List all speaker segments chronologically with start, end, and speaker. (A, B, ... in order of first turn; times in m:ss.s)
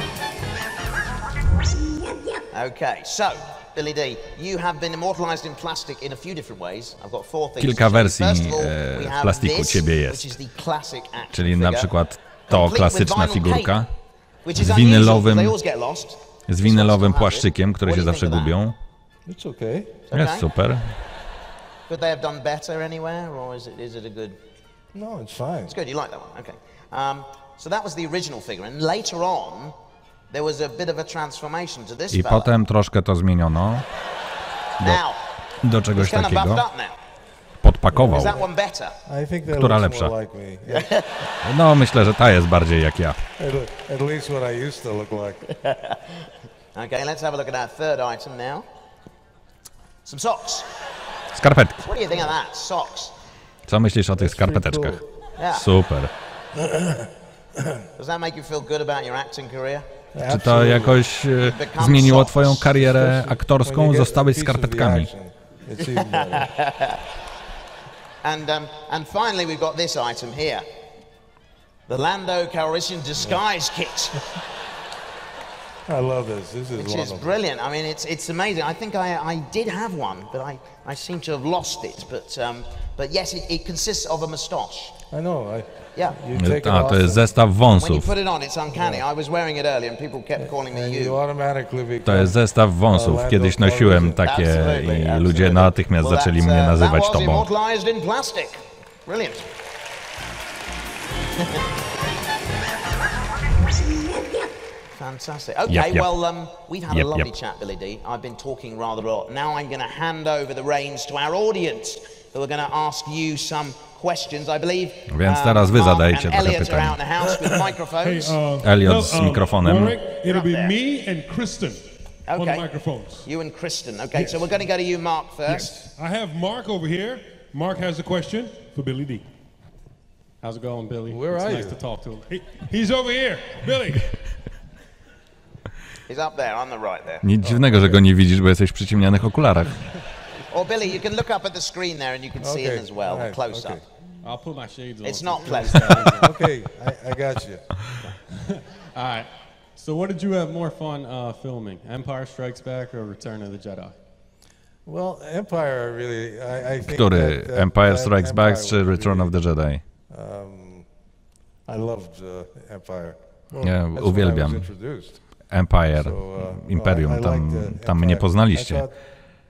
0:02.5-0:11.9 A
0:07.6-0:10.3 B
0:11.3-0:13.9 B
0:12.5-0:13.8 A
0:14.4-0:18.6 A
0:14.5-0:15.6 B
0:16.5-0:18.8 B
0:19.2-0:20.0 C
0:20.1-0:20.4 A
0:20.1-0:20.9 B
0:21.9-0:24.4 A
0:24.9-0:25.7 C
0:25.7-0:29.8 A
0:30.3-0:32.5 A
0:32.1-0:33.8 B
0:34.8-0:35.2 A
0:35.6-0:36.6 B
0:35.9-0:37.0 A
0:37.6-0:38.4 B
0:37.9-0:38.5 C
0:37.9-0:39.0 A
0:39.0-0:41.3 C
0:39.5-0:40.1 B
0:40.7-0:41.2 A
0:41.4-0:43.2 B
0:43.4-0:45.4 C
0:45.6-0:46.1 A
0:46.7-0:48.6 A
0:50.0-0:50.7 A
0:51.3-0:51.8 B
0:51.8-0:53.1 A
0:53.6-0:56.1 B
0:54.2-0:55.0 C
0:55.4-0:55.7 A
0:56.6-0:57.8 C
0:58.0-0:59.8 A
1:00.1-1:01.0 C
1:00.3-1:05.1 B
1:01.4-1:02.7 A
1:02.7-1:06.5 C
1:05.9-1:07.0 A
1:08.2-1:10.6 A
1:11.9-1:14.2 A
1:15.9-1:17.3 C
1:16.7-1:25.0 A
1:25.1-1:27.3 C
1:26.3-1:28.1 B
1:27.7-1:31.2 A
1:28.7-1:29.0 C
1:30.4-1:34.2 C
1:32.0-1:37.5 B
1:34.2-1:39.5 A
1:41.4-1:41.6 A
1:44.9-1:58.4 A
1:45.7-1:46.1 B
1:46.9-1:47.3 B
1:55.1-1:57.0 B
1:58.0-2:03.3 D
1:58.6-2:00.0 B
2:00.2-2:00.8 A
2:02.3-2:05.8 A
2:04.1-2:04.7 D
2:05.4-2:09.3 D
2:10.4-2:12.3 E
2:11.1-2:11.8 C
2:12.3-2:14.2 D
2:16.1-2:17.2 A
2:17.2-2:19.8 B
2:17.4-2:18.0 C
2:20.5-2:23.8 A
2:22.4-2:23.8 C
2:24.2-2:26.5 E
2:25.0-2:26.1 A
2:25.5-2:27.9 C
2:28.4-2:34.0 E
2:34.8-2:39.3 C
2:36.8-2:39.8 B
2:40.1-2:40.9 C
2:41.7-2:45.2 C
2:43.6-2:44.7 B
2:45.5-2:48.8 B
2:45.9-2:49.0 C